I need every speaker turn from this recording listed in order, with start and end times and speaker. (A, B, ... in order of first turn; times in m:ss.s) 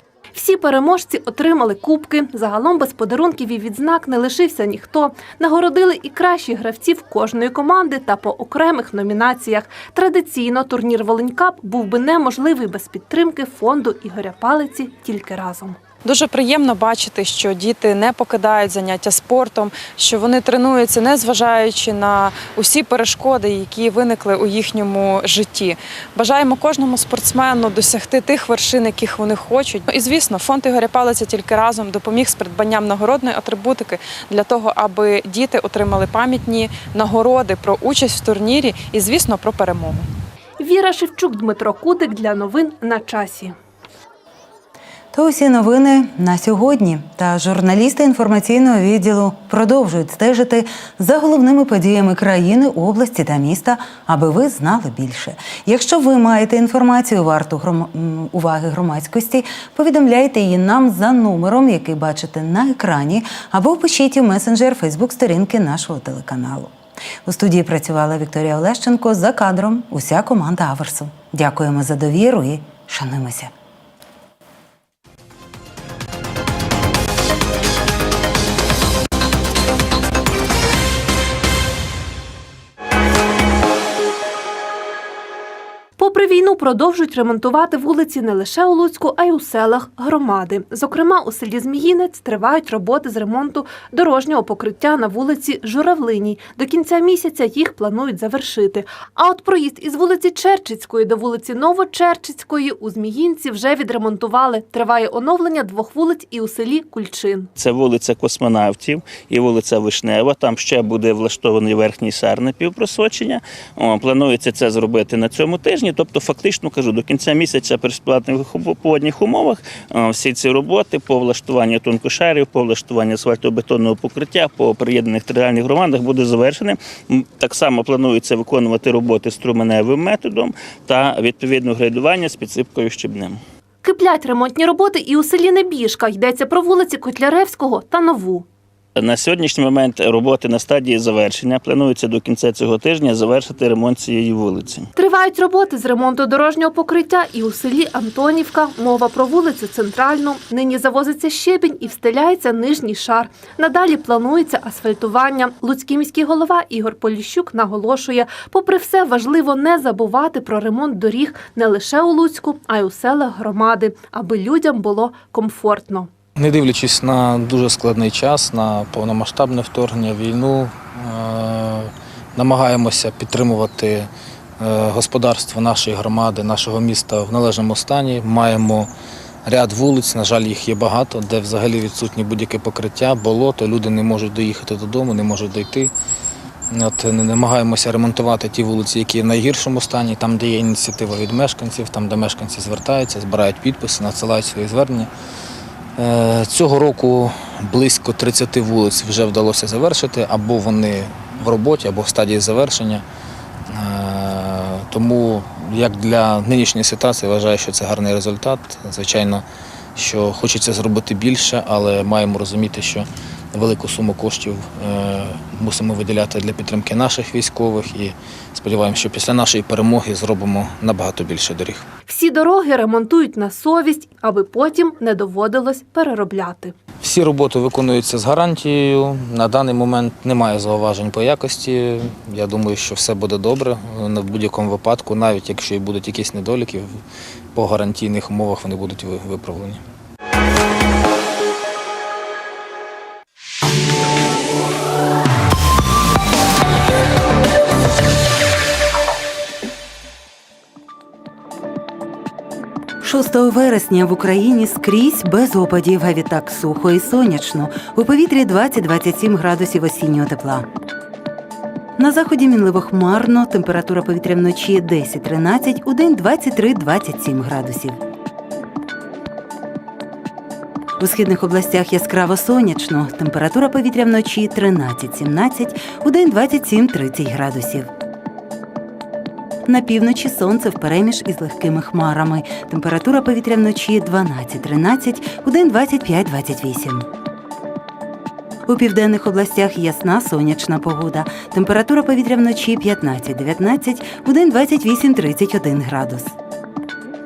0:00.3-0:15.8 A
0:16.0-0:40.1 B
0:40.6-0:43.6 A
0:45.1-1:06.7 C
1:07.2-1:13.5 C
1:26.0-1:47.5 A
1:47.6-2:13.4 D
2:13.8-2:18.5 A
2:19.0-2:24.9 D
2:25.0-2:46.1 A
2:46.4-2:58.9 E
2:59.4-3:05.9 E
3:06.7-3:15.1 E
3:16.0-3:23.0 E
3:23.7-3:29.4 E
3:30.0-3:41.8 E
3:42.1-3:46.8 A
3:47.0-3:57.0 E
3:57.5-3:59.8 E
4:13.0-4:20.7 C
4:22.0-4:28.0 C
4:31.0-4:37.9 C
4:39.7-4:47.1 C
4:48.7-4:56.3 C